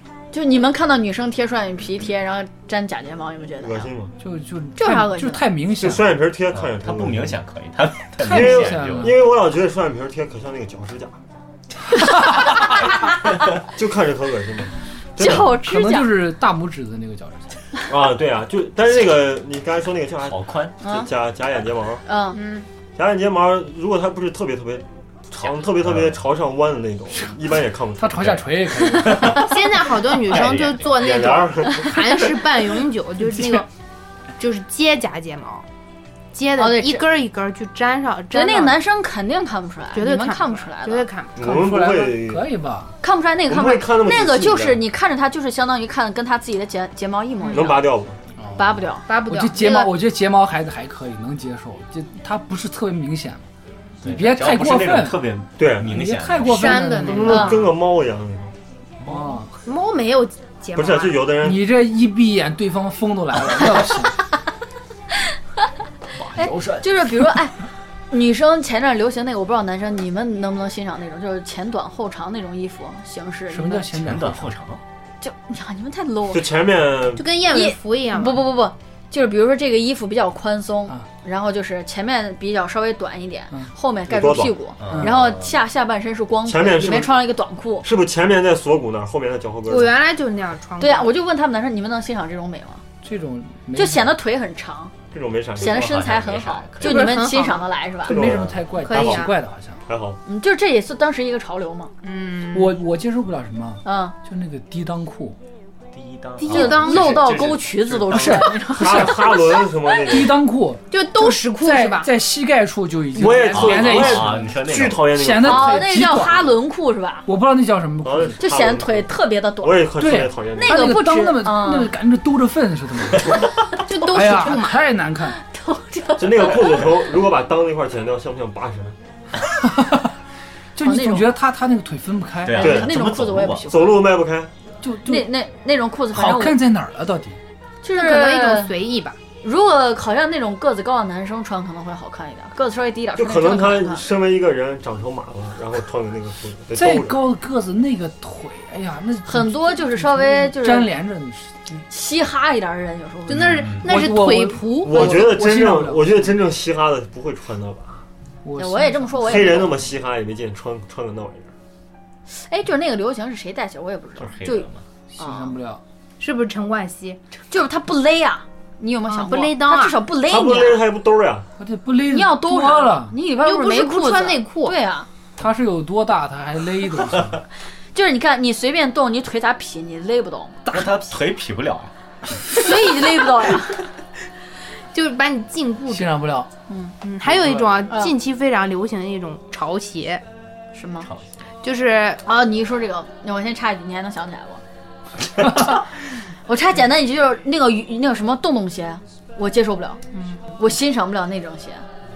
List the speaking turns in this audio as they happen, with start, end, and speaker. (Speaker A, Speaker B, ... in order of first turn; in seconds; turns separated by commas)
Speaker A: 0.3-3.9, Speaker B: 3.6-4.1, Speaker C: 4.2-6.1, Speaker A: 4.8-5.5, Speaker B: 5.8-7.4, Speaker D: 6.5-9.1, Speaker C: 8.2-9.2, Speaker B: 8.2-11.2, Speaker B: 13.7-15.6, Speaker A: 15.2-16.1, Speaker C: 15.2-17.6, Speaker B: 17.9-22.0, Speaker D: 20.3-20.8, Speaker A: 20.8-21.1, Speaker A: 22.1-22.4, Speaker E: 22.4-22.6, Speaker B: 23.0-28.5, Speaker D: 25.9-26.1, Speaker C: 28.0-29.5, Speaker D: 28.8-29.5, Speaker E: 29.2-33.7, Speaker D: 30.3-30.9, Speaker B: 30.9-31.9, Speaker C: 33.3-33.6, Speaker E: 34.4-35.7, Speaker E: 36.3-38.8, Speaker A: 36.6-37.1, Speaker A: 38.3-41.1, Speaker E: 39.9-41.5, Speaker B: 41.4-42.5, Speaker C: 41.4-42.9, Speaker A: 43.0-47.9, Speaker B: 43.5-44.8, Speaker E: 47.4-47.7, Speaker B: 47.5-48.2, Speaker C: 48.4-53.5, Speaker A: 48.6-49.1, Speaker E: 49.1-49.9, Speaker D: 54.0-57.0, Speaker C: 54.0-55.3, Speaker B: 55.6-55.9, Speaker C: 55.8-57.6, Speaker E: 56.4-57.6, Speaker B: 57.1-58.6, Speaker A: 57.3-57.6, Speaker D: 59.0-59.4, Speaker C: 59.1-59.5, Speaker E: 59.6-61.3, Speaker B: 60.8-61.7, Speaker C: 61.4-64.2, Speaker C: 66.1-67.3, Speaker A: 66.3-67.6, Speaker A: 68.1-73.9, Speaker C: 73.5-74.5, Speaker D: 74.0-74.8, Speaker A: 75.2-76.5, Speaker B: 76.3-77.3, Speaker E: 77.2-78.5, Speaker A: 77.5-87.9, Speaker B: 84.1-84.5, Speaker D: 84.8-85.5, Speaker B: 86.5-87.2, Speaker B: 87.8-89.9, Speaker E: 89.7-91.1, Speaker A: 90.8-92.8, Speaker C: 93.0-94.1, Speaker A: 93.8-94.9, Speaker B: 95.1-96.0, Speaker A: 95.6-98.2, Speaker D: 95.6-97.2, Speaker E: 96.8-97.7, Speaker B: 98.0-99.3, Speaker C: 98.0-99.8, Speaker E: 98.8-99.3, Speaker B: 99.9-100.2, Speaker A: 100.3-101.9, Speaker E: 102.0-102.8, Speaker C: 102.5-105.4, Speaker A: 103.8-104.2, Speaker D: 105.9-108.6, Speaker E: 106.4-107.3, Speaker A: 106.5-109.3, Speaker C: 108.1-109.3, Speaker B: 108.7-110.4, Speaker C: 110.0-116.5, Speaker E: 110.9-112.1, Speaker B: 113.1-115.9, Speaker D: 113.3-115.1, Speaker A: 115.4-117.3, Speaker C: 117.3-118.4, Speaker B: 118.0-121.0, Speaker A: 118.4-120.0, Speaker C: 120.0-123.5, Speaker A: 120.6-121.9, Speaker E: 123.9-124.9, Speaker C: 124.0-125.4, Speaker A: 125.4-126.9, Speaker B: 126.2-129.0, Speaker C: 129.6-130.1, Speaker C: 130.8-132.7, Speaker A: 130.8-131.3, Speaker D: 132.4-133.8, Speaker A: 132.5-134.0, Speaker B: 132.6-132.9, Speaker B: 133.7-134.5, Speaker C: 134.8-135.3, Speaker A: 135.1-136.6, Speaker C: 136.1-137.4, Speaker A: 137.8-138.8, Speaker E: 137.9-139.2, Speaker A: 139.4-144.0, Speaker B: 143.2-147.2, Speaker C: 146.8-151.8, Speaker A: 149.3-150.9, Speaker A: 151.9-153.7, Speaker E: 153.3-155.3, Speaker D: 153.5-153.9, Speaker C: 153.8-156.3, Speaker B: 154.8-158.0, Speaker C: 158.4-159.8, Speaker A: 158.6-159.7, Speaker B: 159.2-161.5, Speaker A: 162.3-165.5, Speaker D: 164.2-164.8, Speaker C: 165.2-165.8, Speaker E: 166.2-167.2, Speaker A: 167.5-170.8, Speaker E: 169.1-170.0, Speaker B: 170.2-171.5, Speaker C: 171.6-173.1, Speaker A: 172.1-175.1, Speaker E: 173.4-174.8, Speaker C: 175.4-177.4, Speaker A: 177.9-180.6, Speaker D: 180.7-181.9, Speaker A: 182.5-183.8, Speaker E: 184.9-186.2, Speaker C: 185.9-186.5, Speaker A: 186.7-186.9, Speaker E: 187.0-190.2, Speaker A: 190.7-191.1, Speaker D: 191.0-191.3, Speaker E: 191.6-192.2, Speaker A: 192.2-194.6, Speaker A: 196.5-200.0, Speaker E: 200.1-200.4, Speaker A: 200.6-201.9